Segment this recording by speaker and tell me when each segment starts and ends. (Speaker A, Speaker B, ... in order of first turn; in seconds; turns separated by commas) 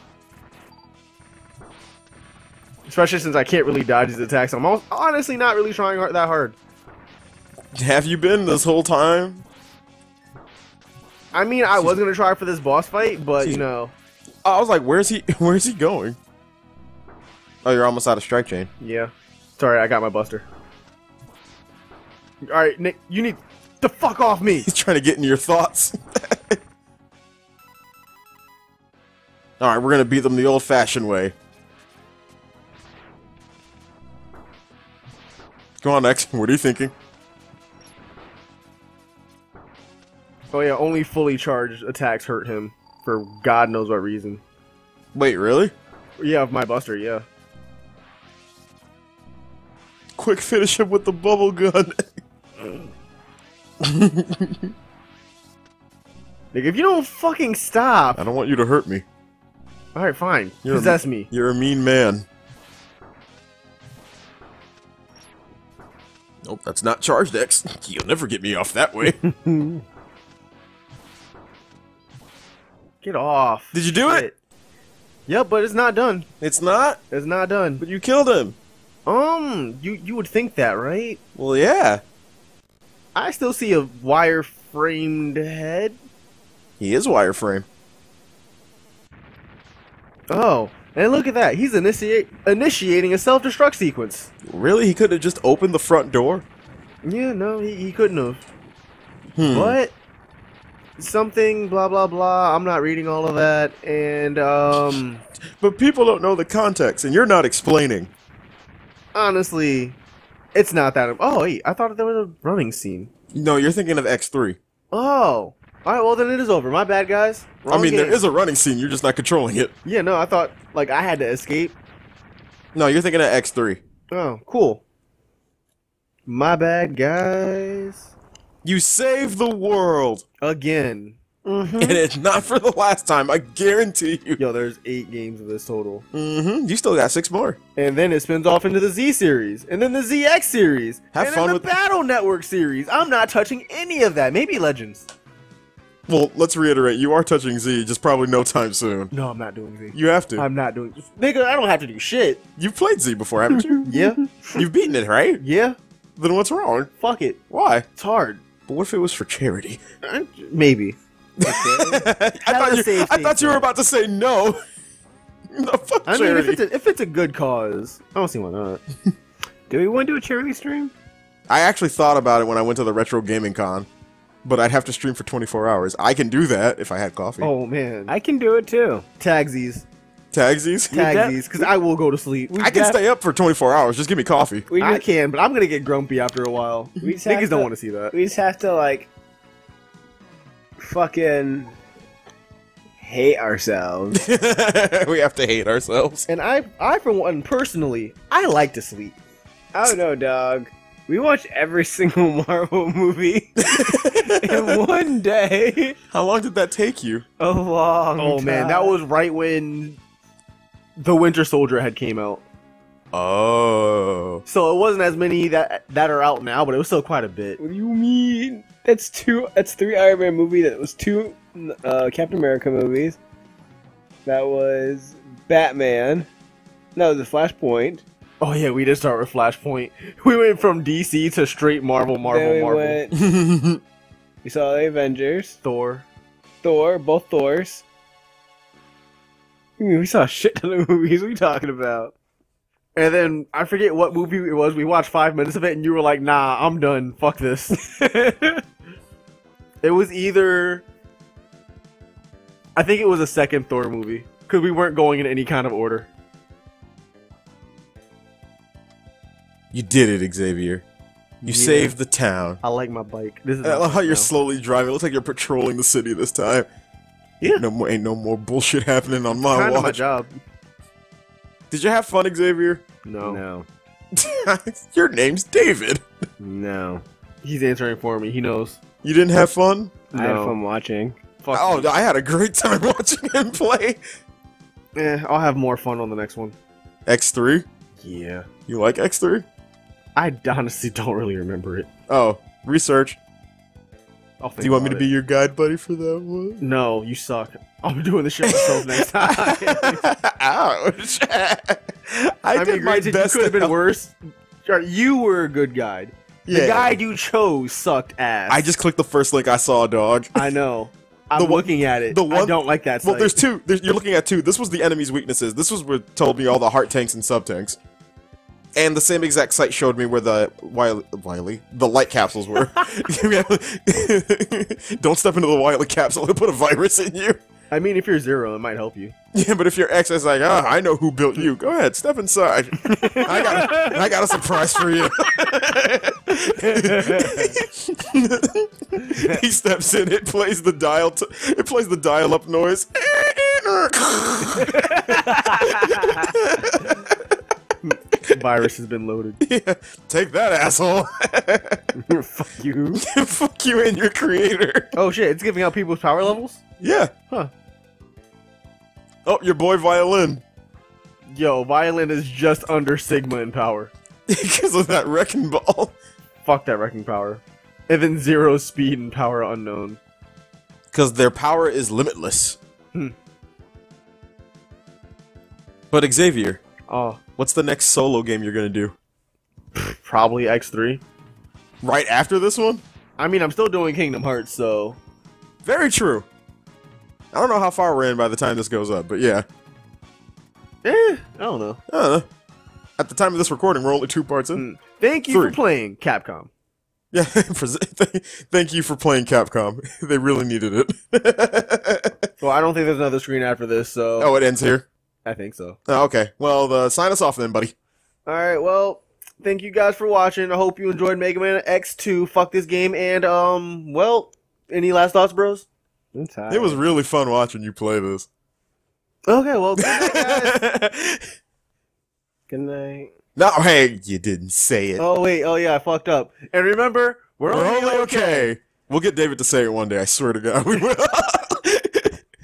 Speaker A: 2.9-6.6, Speaker B: 7.8-9.4, Speaker A: 11.3-13.9, Speaker B: 14.4-16.2, Speaker B: 17.6-18.7, Speaker A: 18.8-20.5, Speaker A: 22.4-24.7, Speaker B: 24.6-26.6, Speaker B: 29.6-31.3, Speaker B: 35.8-36.9, Speaker A: 40.5-44.4, Speaker B: 45.1-45.7, Speaker A: 46.2-47.2, Speaker B: 50.2-52.1, Speaker B: 53.8-54.7, Speaker A: 56.5-58.2, Speaker B: 58.1-59.0, Speaker A: 60.0-61.3, Speaker B: 60.6-62.3, Speaker B: 66.4-69.2, Speaker C: 69.5-69.8, Speaker A: 73.0-74.3, Speaker B: 73.7-74.3, Speaker A: 75.3-76.3, Speaker B: 76.4-77.0, Speaker A: 77.1-77.8, Speaker B: 77.8-78.5, Speaker A: 79.1-81.2, Speaker B: 81.4-82.0, Speaker A: 83.2-86.0, Speaker B: 86.8-87.7, Speaker A: 90.3-94.3, Speaker B: 94.5-96.5, Speaker A: 97.0-98.5, Speaker B: 99.4-99.8, Speaker A: 99.5-100.0, Speaker A: 101.0-105.2, Speaker B: 105.6-108.1, Speaker A: 109.1-110.0, Speaker A: 110.5-113.1, Speaker B: 113.3-114.6, Speaker A: 114.9-118.2, Speaker B: 117.7-119.7, Speaker A: 119.8-121.8, Speaker B: 122.8-123.8, Speaker A: 124.1-124.8, Speaker A: 126.3-128.1, Speaker B: 128.6-130.2, Speaker A: 130.4-131.2, Speaker C: 131.4-132.0, Speaker B: 131.8-134.4, Speaker A: 134.4-136.1, Speaker B: 136.1-137.6, Speaker A: 137.8-145.1, Speaker B: 141.1-141.7, Speaker B: 146.1-149.1, Speaker A: 149.1-152.4, Speaker B: 149.9-150.4, Speaker B: 152.6-154.0, Speaker A: 153.9-154.2, Speaker B: 154.5-155.4, Speaker A: 155.4-155.8, Speaker B: 156.2-156.9, Speaker A: 157.0-157.4, Speaker B: 157.5-157.9, Speaker A: 158.0-158.4, Speaker B: 158.7-159.8, Speaker A: 160.0-161.0, Speaker C: 161.4-162.1, Speaker B: 161.4-164.6, Speaker A: 162.4-163.7, Speaker B: 165.5-166.6, Speaker A: 166.1-168.8, Speaker C: 169.7-170.9, Speaker B: 171.5-173.9, Speaker B: 174.4-177.5, Speaker A: 177.4-178.1, Speaker C: 178.1-179.0, Speaker A: 179.2-179.8, Speaker B: 180.3-181.2, Speaker A: 180.9-182.6, Speaker C: 180.9-181.7, Speaker C: 182.5-183.0, Speaker B: 182.6-184.7, Speaker C: 184.7-185.0, Speaker A: 184.8-188.1, Speaker C: 187.0-189.1, Speaker C: 190.8-191.8, Speaker C: 193.0-194.2, Speaker B: 194.2-196.3, Speaker A: 196.3-199.2, Speaker C: 199.7-206.0, Speaker B: 203.6-204.8, Speaker B: 206.1-207.2, Speaker C: 207.4-208.9, Speaker A: 208.2-210.0, Speaker A: 211.0-212.4, Speaker B: 213.1-214.4, Speaker A: 214.5-217.6, Speaker C: 217.6-223.2, Speaker C: 224.3-226.3, Speaker C: 226.9-228.0, Speaker A: 228.4-233.0, Speaker C: 232.2-233.2, Speaker B: 233.1-233.8, Speaker C: 234.4-235.6, Speaker A: 235.6-236.1, Speaker C: 236.6-237.8, Speaker C: 239.8-242.1, Speaker A: 242.9-247.8, Speaker C: 247.8-248.6, Speaker A: 249.8-250.9, Speaker A: 252.8-256.1, Speaker B: 259.7-260.9, Speaker A: 261.4-262.0, Speaker B: 261.4-262.6, Speaker A: 262.6-264.3, Speaker B: 263.6-266.7, Speaker B: 267.6-270.0, Speaker A: 269.4-270.4, Speaker B: 271.7-272.8, Speaker A: 273.1-273.4, Speaker C: 273.2-273.7, Speaker B: 274.1-276.0, Speaker C: 276.4-277.0, Speaker A: 277.4-278.8, Speaker B: 279.0-280.0, Speaker A: 280.1-280.6, Speaker C: 280.1-281.2, Speaker A: 281.4-282.0, Speaker B: 281.5-284.0, Speaker A: 285.0-286.6, Speaker B: 287.1-287.6, Speaker A: 288.0-288.5, Speaker B: 288.7-289.5, Speaker A: 290.2-291.9, Speaker B: 292.1-293.2, Speaker A: 294.4-295.1, Speaker B: 294.6-296.6, Speaker A: 296.6-300.0, Speaker B: 298.5-303.8, Speaker A: 302.5-308.7, Speaker B: 306.5-306.9, Speaker B: 308.5-310.5, Speaker A: 310.4-313.4, Speaker B: 311.4-317.8, Speaker B: 318.8-327.4, Speaker A: 327.7-329.1, Speaker B: 329.3-347.2, Speaker A: 332.9-334.0, Speaker C: 333.0-333.8, Speaker C: 337.2-337.4, Speaker C: 344.7-346.2, Speaker A: 347.9-349.4, Speaker B: 349.4-351.8, Speaker C: 352.0-353.0, Speaker B: 352.9-354.9, Speaker A: 354.9-356.6, Speaker B: 356.8-357.1, Speaker B: 359.3-360.4, Speaker A: 361.3-363.9, Speaker B: 364.3-365.9, Speaker A: 366.4-370.0, Speaker B: 370.9-372.6, Speaker B: 375.9-376.6, Speaker A: 376.9-377.2, Speaker B: 377.4-378.9, Speaker A: 379.8-381.0, Speaker B: 381.8-382.8, Speaker A: 383.2-385.0, Speaker B: 385.6-386.3, Speaker B: 387.3-389.4, Speaker A: 390.8-391.8, Speaker B: 391.9-392.2, Speaker B: 393.0-394.6, Speaker A: 394.6-396.5, Speaker B: 395.3-395.6, Speaker B: 397.1-402.1, Speaker A: 402.4-404.3, Speaker B: 404.2-404.9, Speaker A: 405.2-405.8, Speaker B: 405.9-407.7, Speaker A: 408.3-415.7, Speaker C: 416.1-416.8, Speaker B: 416.5-418.3, Speaker A: 419.3-420.6, Speaker B: 419.8-421.2, Speaker C: 422.5-423.1, Speaker B: 423.4-425.0, Speaker A: 425.0-428.5, Speaker B: 427.5-432.2